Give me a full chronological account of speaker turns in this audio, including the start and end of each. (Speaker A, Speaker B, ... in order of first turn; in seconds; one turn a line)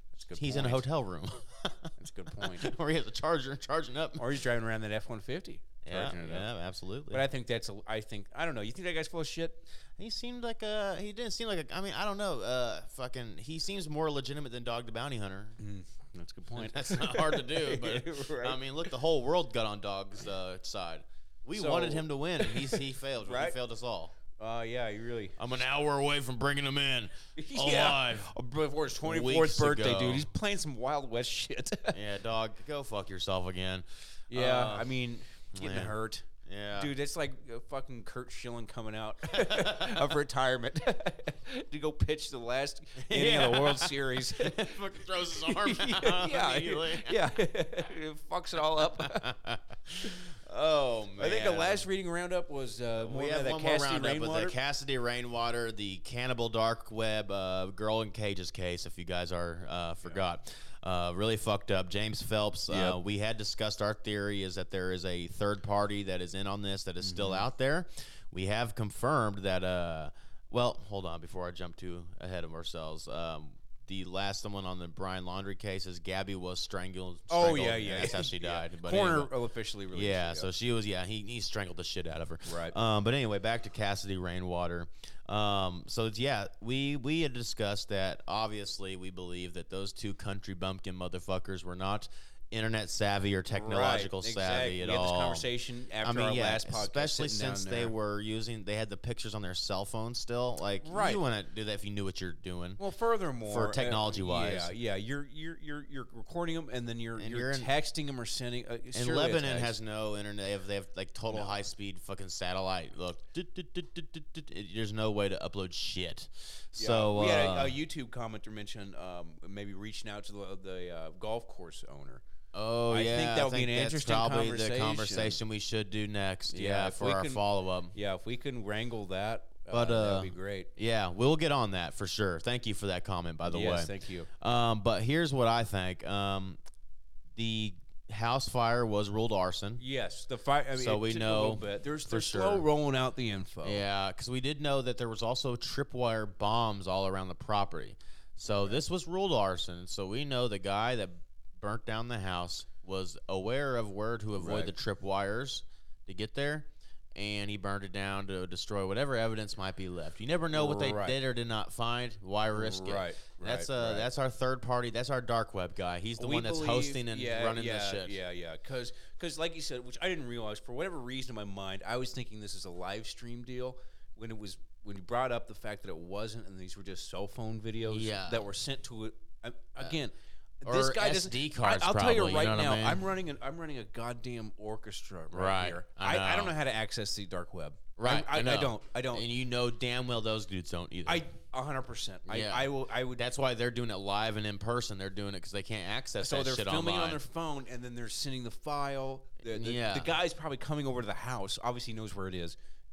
Speaker A: 0.1-0.9
Speaker B: 0.4-4.2
Speaker A: 2.0-2.7
Speaker A: 4.2-6.5
Speaker B: 5.8-7.2
Speaker A: 7.1-9.7
Speaker B: 10.0-15.6
Speaker A: 15.6-18.6
Speaker B: 16.6-24.1
Speaker A: 21.5-23.6
Speaker A: 24.3-25.4
Speaker B: 25.4-28.3
Speaker A: 27.4-32.0
Speaker B: 29.0-30.3
Speaker B: 31.9-34.9
Speaker A: 34.3-44.8
Speaker B: 35.5-35.9
Speaker B: 36.5-36.9
Speaker B: 39.3-40.0
Speaker B: 43.0-47.2
Speaker A: 45.4-49.3
Speaker B: 49.0-51.9
Speaker A: 51.2-54.6
Speaker B: 53.0-79.3
Speaker A: 62.7-63.0
Speaker A: 67.0-67.5
Speaker A: 77.3-80.5
Speaker B: 79.9-95.5
Speaker A: 82.5-82.7
Speaker A: 93.5-97.9
Speaker B: 96.0-102.8
Speaker A: 100.8-101.2
Speaker A: 102.8-109.8
Speaker B: 103.5-104.7
Speaker B: 107.2-107.7
Speaker B: 108.9-117.8
Speaker A: 111.3-111.6
Speaker A: 116.8-122.2
Speaker B: 122.5-128.0
Speaker A: 122.9-125.4
Speaker A: 126.5-130.7
Speaker B: 129.7-136.6
Speaker A: 133.5-134.3
Speaker B: 137.3-139.8
Speaker A: 139.8-143.8
Speaker B: 140.8-142.7
Speaker B: 143.6-168.2
Speaker A: 154.4-154.7
Speaker A: 160.5-161.2
Speaker A: 162.5-164.1
Speaker A: 166.2-189.3
Speaker B: 177.9-178.5
Speaker B: 180.7-183.0
Speaker B: 185.3-186.5
Speaker B: 188.0-191.2
Speaker A: 191.1-193.2
Speaker B: 192.3-197.2
Speaker A: 196.2-202.6
Speaker B: 199.5-200.1